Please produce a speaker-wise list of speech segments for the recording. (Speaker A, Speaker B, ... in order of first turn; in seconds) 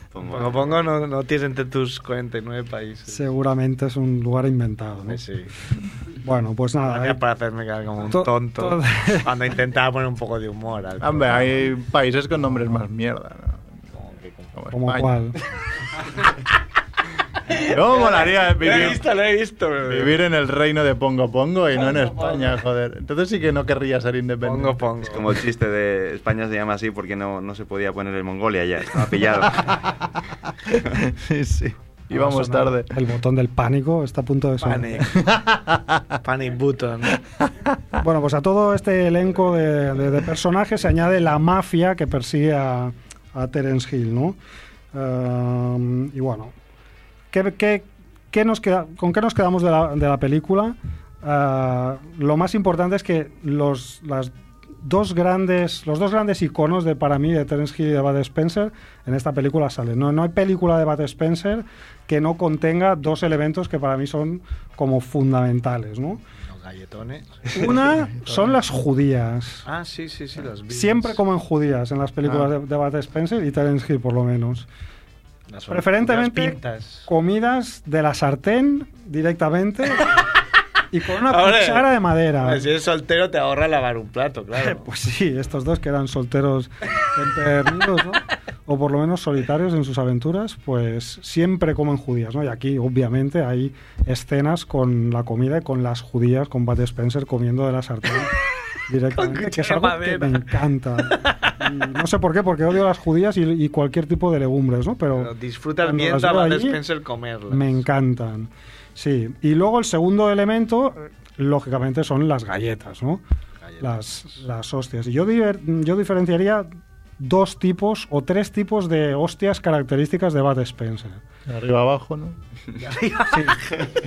Speaker A: 0.1-0.8, 25.0-30.0
Speaker B: 0.2-3.2, 5.1-5.5, 6.8-11.7, 13.9-14.6, 17.5-20.2, 24.4-25.2, 34.6-35.2, 36.2-37.2, 66.4-68.4, 69.7-71.2, 75.5-77.1, 81.3-81.9, 82.4-84.8, 99.2-100.5, 101.2-101.5, 105.2-107.8, 113.6-114.4, 122.8-123.8
Speaker C: 3.1-5.2, 6.2-7.2, 8.1-9.3, 14.7-15.4, 32.1-35.1, 38.0-44.4, 44.9-46.5, 47.3-54.3, 54.8-66.2, 67.5-69.6, 70.7-74.7, 75.7-80.1, 80.9-82.7, 84.6-98.3, 98.9-105.3, 105.8-106.8, 107.5-113.2, 113.8-116.7, 117.2-121.2, 123.3-123.6
Speaker D: 11.0-13.6, 14.5-15.2, 17.5-19.0, 19.9-24.9, 30.7-32.9, 35.2-36.0, 121.5-122.3